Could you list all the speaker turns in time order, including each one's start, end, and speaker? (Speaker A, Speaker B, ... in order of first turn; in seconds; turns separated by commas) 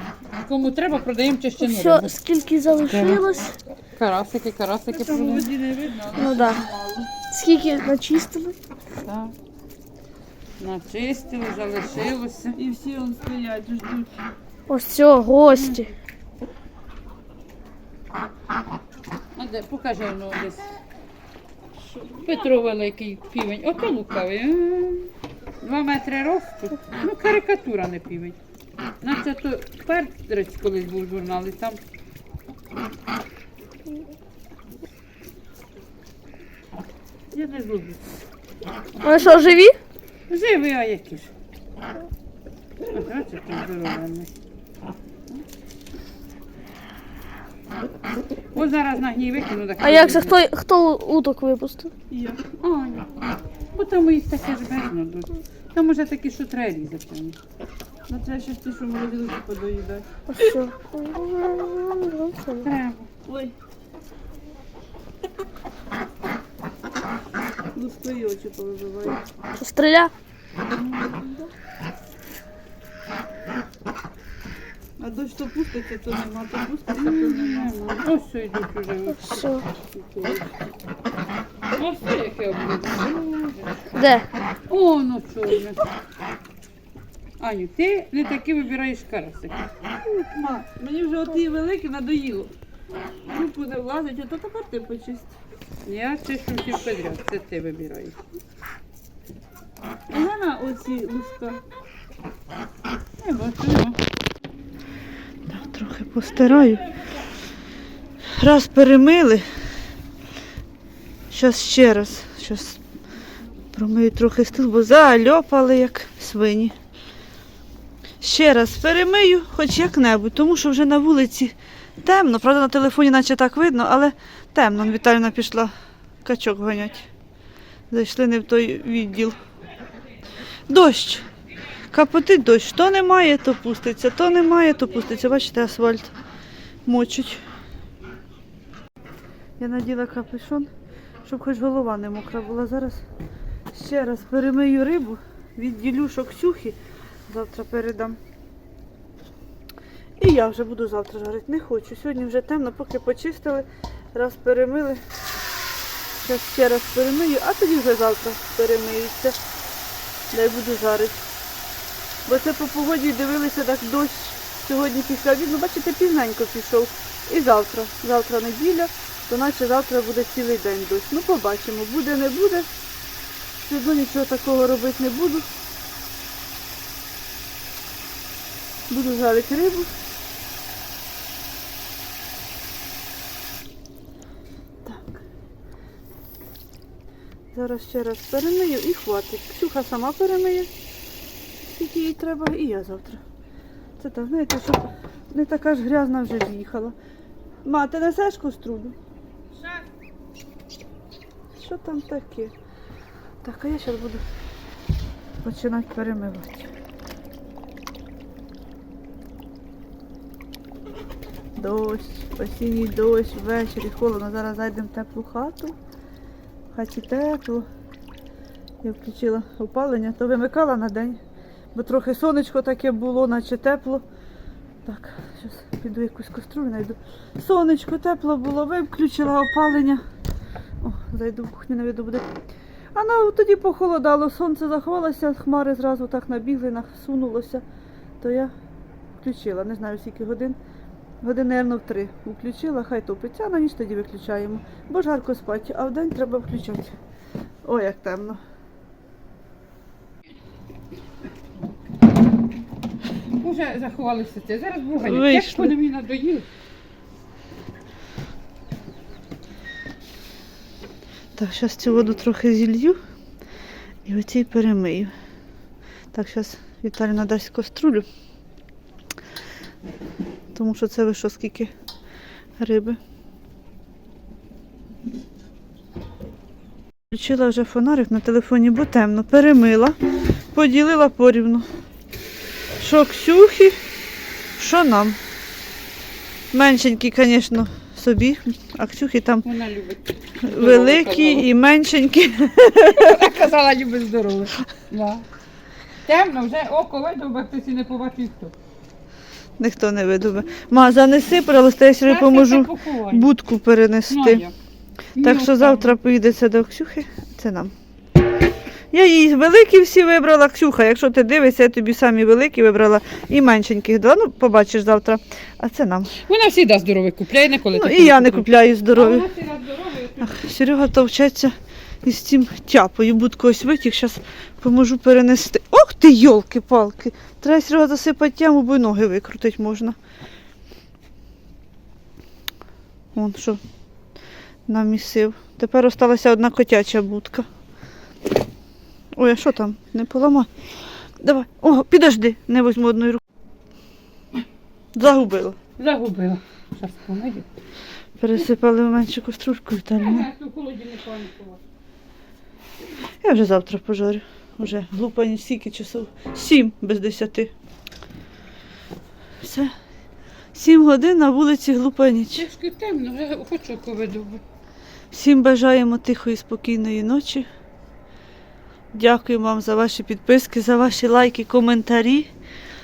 Speaker A: 0.4-2.1, Speaker B: 1.6-3.5, Speaker A: 2.9-3.2, Speaker A: 4.0-5.5, Speaker C: 4.9-7.1, Speaker B: 6.2-6.6, Speaker B: 7.3-8.6, Speaker A: 9.1-9.3, Speaker A: 10.6-12.6, Speaker C: 12.6-14.1, Speaker B: 14.7-15.9, Speaker A: 19.4-20.7, Speaker A: 21.9-28.4, Speaker A: 29.0-31.8, Speaker A: 37.3-38.1, Speaker B: 39.0-39.8, Speaker A: 40.3-41.3, Speaker A: 42.9-44.3, Speaker A: 48.5-50.4, Speaker B: 49.8-51.9, Speaker C: 52.1-52.4, Speaker A: 52.6-53.1, Speaker A: 53.7-57.4, Speaker C: 58.1-60.6, Speaker B: 60.3-62.6, Speaker A: 62.6-63.1, Speaker C: 63.3-63.5, Speaker C: 67.8-69.2, Speaker B: 69.6-70.1, Speaker C: 70.9-71.5, Speaker C: 75.0-77.7, Speaker A: 77.0-80.5, Speaker B: 79.2-79.6, Speaker A: 81.7-83.9, Speaker B: 84.0-84.3, Speaker A: 84.7-85.9, Speaker A: 87.4-89.7, Speaker C: 90.1-92.5, Speaker C: 93.3-95.3, Speaker A: 95.8-98.2, Speaker C: 100.1-101.6, Speaker A: 103.2-104.0, Speaker C: 105.5-106.8, Speaker C: 108.4-109.4, Speaker C: 111.3-112.8, Speaker C: 113.7-116.7, Speaker C: 118.2-125.7, Speaker C: 126.2-127.1, Speaker C: 127.9-129.4, Speaker C: 130.7-131.3, Speaker C: 131.9-136.1, Speaker C: 136.9-137.4, Speaker C: 139.6-140.7, Speaker C: 141.3-143.0, Speaker C: 143.7-148.2, Speaker C: 150.2-155.0, Speaker C: 156.2-159.4, Speaker C: 160.3-161.2, Speaker C: 162.3-172.7, Speaker C: 173.6-175.5, Speaker C: 178.9-179.9, Speaker C: 184.8-185.2, Speaker C: 187.5-190.7, Speaker C: 191.8-193.2, Speaker C: 194.0-196.9, Speaker C: 197.7-198.9, Speaker A: 199.6-199.8, Speaker C: 201.6-202.5, Speaker C: 203.4-204.2, Speaker C: 205.4-206.7, Speaker C: 211.6-215.8, Speaker C: 216.7-217.7, Speaker C: 218.8-221.2, Speaker C: 221.7-224.1, Speaker C: 224.8-230.0, Speaker C: 230.8-232.3, Speaker C: 232.9-237.6, Speaker C: 238.2-238.5, Speaker C: 239.2-240.6, Speaker C: 241.2-246.9, Speaker C: 247.7-248.4, Speaker A: 253.4-256.5, Speaker C: 255.0-255.7, Speaker C: 261.4-263.0, Speaker C: 264.1-265.1, Speaker C: 266.1-268.1, Speaker C: 270.6-271.7, Speaker C: 272.6-273.0, Speaker C: 277.1-280.0, Speaker C: 280.5-281.7, Speaker C: 282.8-283.8, Speaker C: 284.6-285.2, Speaker C: 286.5-289.4, Speaker A: 289.4-291.5, Speaker C: 290.4-293.2, Speaker A: 292.9-295.2, Speaker A: 296.1-298.5, Speaker C: 299.6-304.4, Speaker A: 302.1-303.3, Speaker A: 304.1-304.5, Speaker A: 305.2-305.9, Speaker C: 305.2-307.7, Speaker C: 308.9-316.1, Speaker A: 316.2-320.3, Speaker C: 317.8-319.3, Speaker C: 320.2-330.0, Speaker C: 333.1-333.6, Speaker C: 334.7-337.4, Speaker C: 339.2-340.5, Speaker C: 341.2-343.2, Speaker C: 344.9-345.6, Speaker A: 345.8-347.5, Speaker C: 348.2-350.3, Speaker A: 350.0-351.6, Speaker C: 353.2-357.5, Speaker C: 359.4-359.7, Speaker C: 360.5-362.5, Speaker A: 362.3-364.4, Speaker C: 365.1-367.5, Speaker C: 368.9-372.3